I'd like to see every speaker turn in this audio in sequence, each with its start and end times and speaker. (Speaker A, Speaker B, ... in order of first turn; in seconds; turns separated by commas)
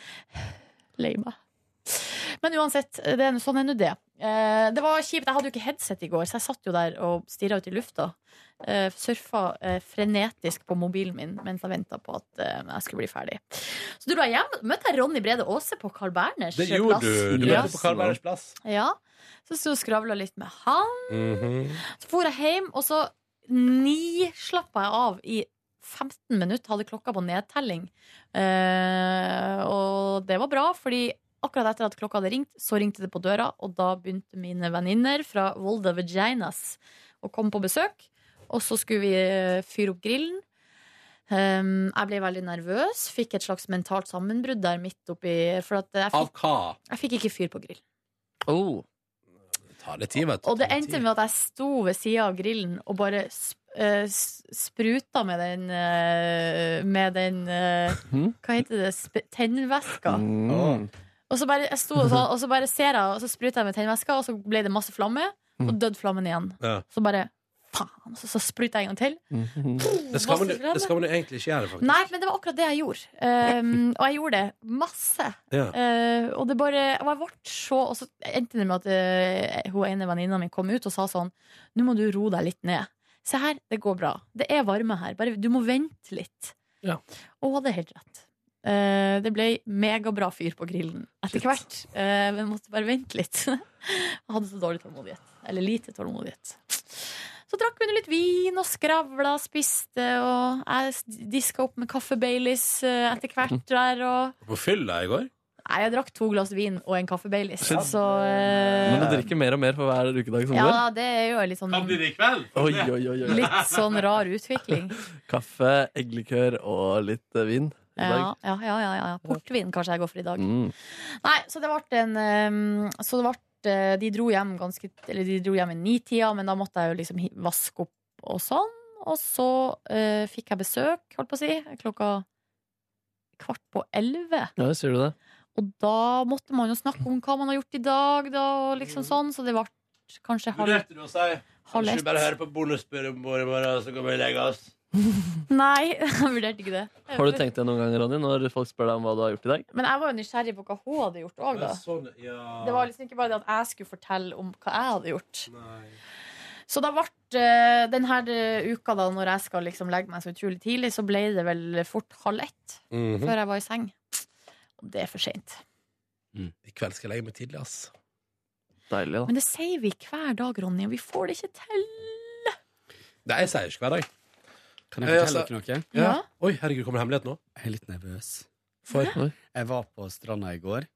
Speaker A: 0.4-17.8, Speaker B: 16.5-18.6, Speaker C: 17.4-18.1, Speaker A: 18.6-40.4, Speaker B: 21.1-21.8, Speaker A: 41.3-46.3, Speaker B: 46.1-46.8, Speaker A: 46.9-47.8, Speaker C: 48.5-48.8, Speaker B: 49.8-51.0, Speaker A: 50.4-60.2, Speaker C: 58.1-58.4, Speaker C: 60.1-60.9, Speaker D: 60.5-60.8, Speaker A: 61.3-69.2, Speaker C: 69.3-69.8, Speaker A: 69.8-70.9, Speaker B: 70.1-72.0, Speaker A: 71.8-86.5, Speaker A: 87.4-104.4, Speaker B: 104.5-105.3, Speaker A: 105.7-109.2, Speaker C: 107.6-107.9, Speaker B: 107.7-109.2, Speaker C: 108.9-110.8, Speaker A: 110.5-112.0, Speaker B: 111.7-114.0, Speaker C: 112.6-113.5, Speaker A: 113.2-115.0, Speaker C: 115.3-118.3, Speaker A: 118.0-132.3, Speaker C: 120.4-120.7, Speaker A: 133.4-134.5, Speaker C: 134.6-135.2, Speaker A: 135.6-140.8, Speaker B: 140.5-144.7, Speaker A: 141.7-142.1, Speaker A: 145.5-147.4, Speaker C: 147.1-149.7, Speaker A: 149.7-151.8, Speaker B: 151.5-152.9, Speaker A: 152.6-155.5, Speaker B: 155.5-155.9, Speaker A: 156.7-164.2, Speaker B: 162.9-163.3, Speaker A: 164.8-165.6, Speaker B: 166.7-167.9, Speaker C: 168.9-169.3, Speaker A: 169.3-172.5, Speaker B: 173.2-174.1, Speaker D: 174.9-175.9, Speaker B: 175.0-177.4, Speaker A: 175.9-176.2, Speaker D: 177.6-178.5, Speaker B: 178.9-179.2, Speaker D: 179.5-180.9